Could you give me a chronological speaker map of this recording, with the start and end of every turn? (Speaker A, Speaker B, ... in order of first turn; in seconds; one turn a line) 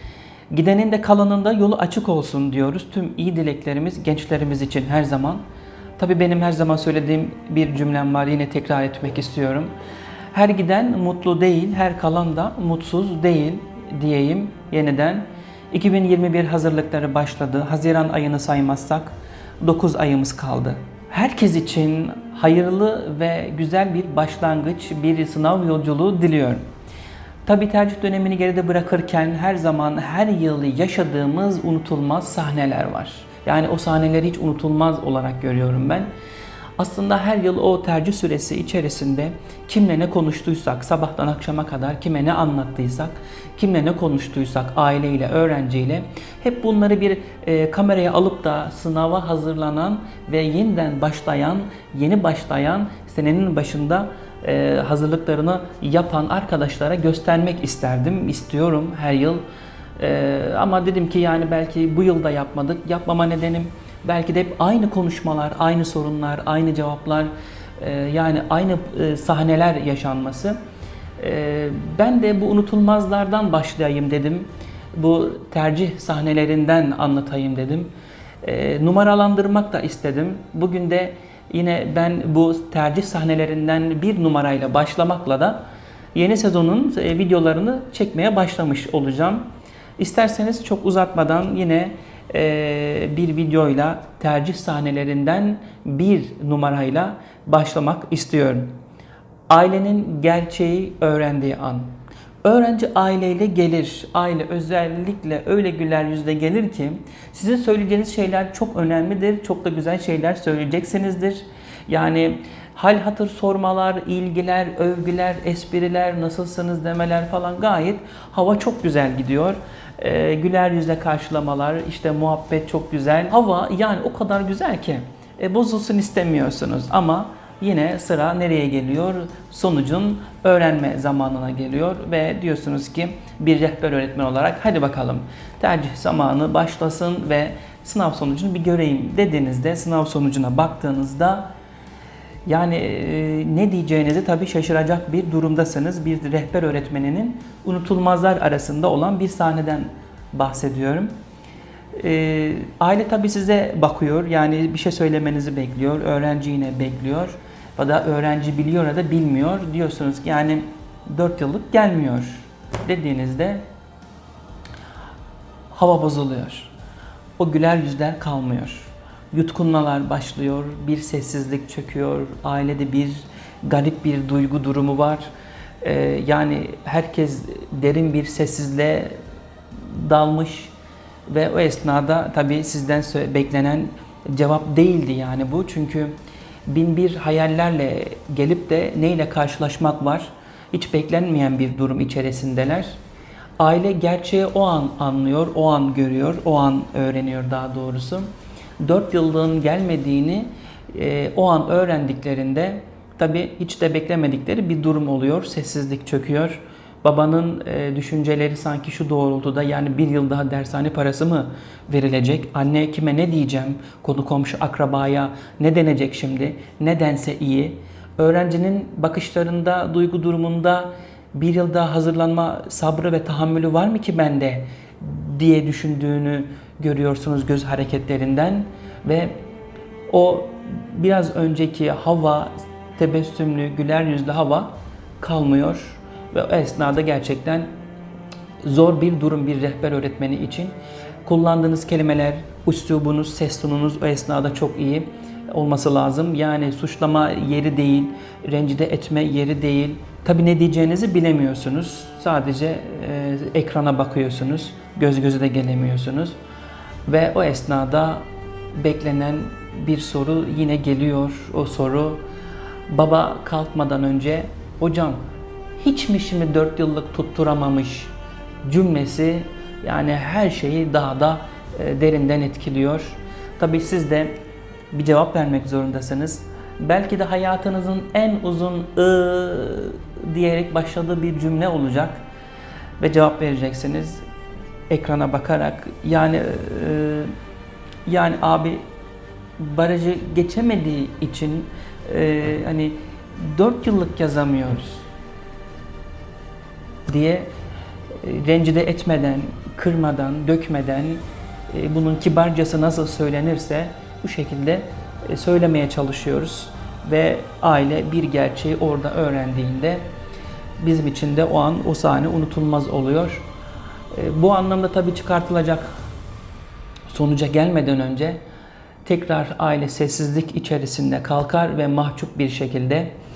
Speaker A: 0.5-5.4
Speaker A: 6.0-9.7
Speaker A: 10.3-26.6
Speaker A: 27.4-36.1
Speaker A: 36.8-59.5
Speaker A: 60.0-70.6
Speaker A: 71.2-77.9
Speaker A: 78.4-85.6
Speaker A: 86.1-89.5
Speaker A: 90.0-98.7
Speaker A: 99.5-101.9
Speaker A: 102.4-141.5
Speaker A: 142.5-151.1
Speaker A: 152.0-163.6
Speaker A: 165.7-166.7
Speaker A: 167.4-175.3
Speaker A: 175.8-179.2
Speaker A: 179.8-180.7
Speaker A: 181.3-186.1
Speaker A: 186.7-193.0
Speaker A: 193.6-198.3
Speaker A: 198.8-229.3
Speaker A: 230.1-237.7
Speaker A: 238.6-256.4
Speaker A: 257.1-262.2
Speaker A: 262.9-265.2
Speaker A: 265.8-268.1
Speaker A: 268.6-274.3
Speaker A: 274.9-282.2
Speaker A: 283.0-284.2
Speaker A: 284.9-287.3
Speaker A: 288.1-288.9
Speaker A: 289.6-295.1
Speaker A: 297.1-297.5
Speaker A: 298.2-310.1
Speaker A: 310.8-313.4
Speaker A: 314.1-316.0
Speaker A: 317.1-318.4
Speaker A: 319.1-323.1